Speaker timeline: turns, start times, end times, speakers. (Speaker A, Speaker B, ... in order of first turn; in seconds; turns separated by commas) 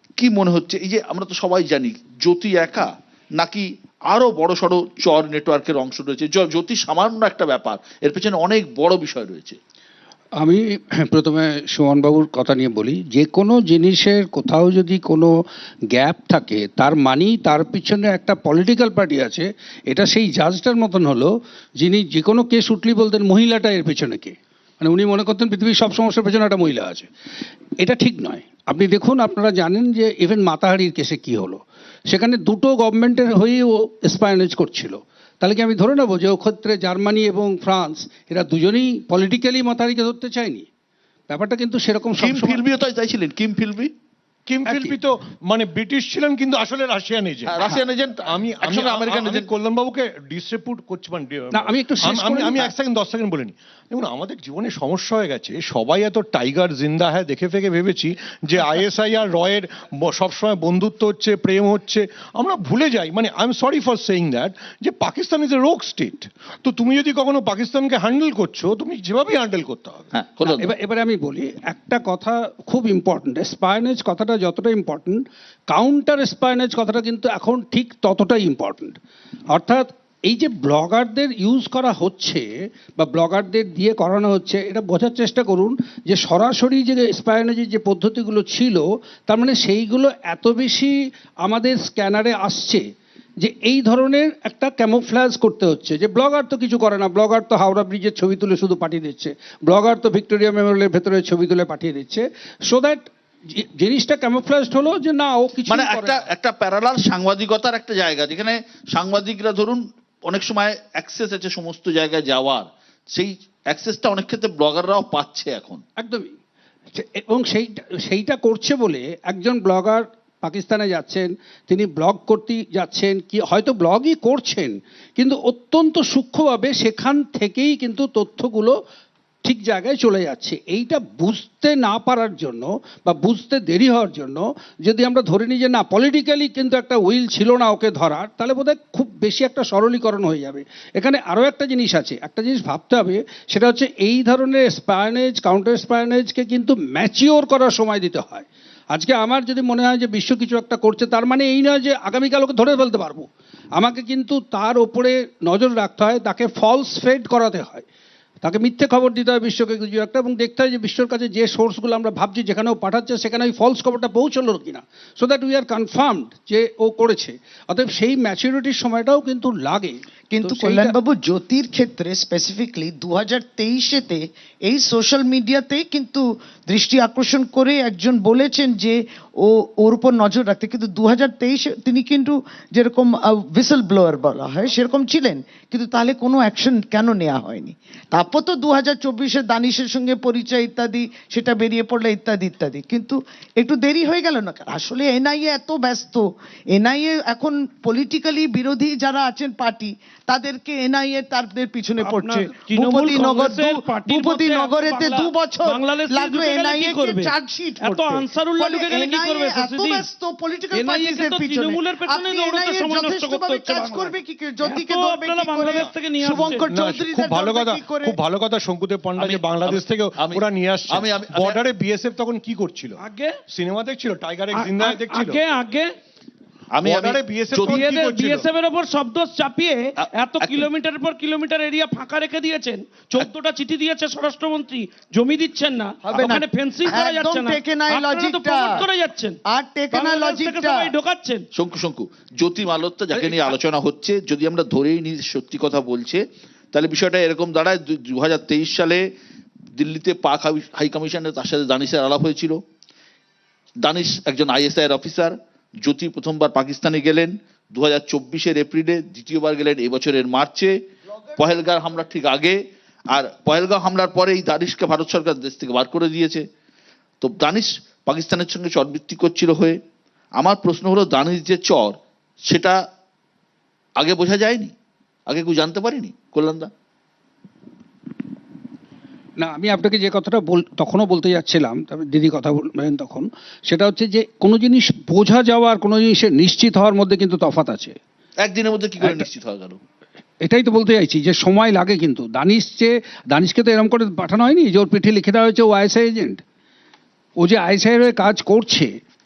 Speaker A: 0.2-9.6, Speaker B: 10.4-15.3, Speaker B: 15.9-27.1, Speaker B: 27.8-40.7, Speaker B: 41.3-42.7, Speaker A: 42.1-43.9, Speaker C: 44.5-70.1, Speaker B: 44.7-45.0, Speaker A: 47.5-49.5, Speaker B: 51.5-52.7, Speaker A: 70.1-70.7, Speaker B: 70.4-79.0, Speaker B: 79.5-92.8, Speaker B: 93.4-106.3, Speaker A: 105.7-115.8, Speaker B: 116.0-116.3, Speaker B: 116.9-128.8, Speaker B: 129.4-157.8, Speaker B: 158.4-170.9, Speaker D: 170.3-218.2, Speaker E: 202.0-210.1, Speaker E: 210.7-216.7, Speaker C: 215.7-225.5, Speaker A: 219.2-221.6, Speaker E: 223.0-223.3, Speaker E: 224.6-225.9, Speaker A: 226.7-227.8, Speaker C: 226.8-228.5, Speaker E: 227.5-239.4, Speaker A: 230.0-230.7, Speaker D: 236.0-238.9, Speaker D: 239.5-240.9, Speaker E: 239.9-241.4, Speaker A: 241.6-246.2, Speaker E: 243.1-243.5, Speaker A: 246.7-249.0, Speaker A: 249.8-252.6, Speaker A: 253.8-260.7, Speaker A: 261.4-266.4, Speaker A: 267.2-269.8, Speaker A: 270.4-272.0, Speaker A: 272.5-272.8, Speaker A: 274.0-274.7, Speaker A: 275.3-276.7, Speaker B: 279.4-288.0, Speaker A: 288.4-289.8, Speaker B: 290.4-296.4, Speaker B: 297.4-298.9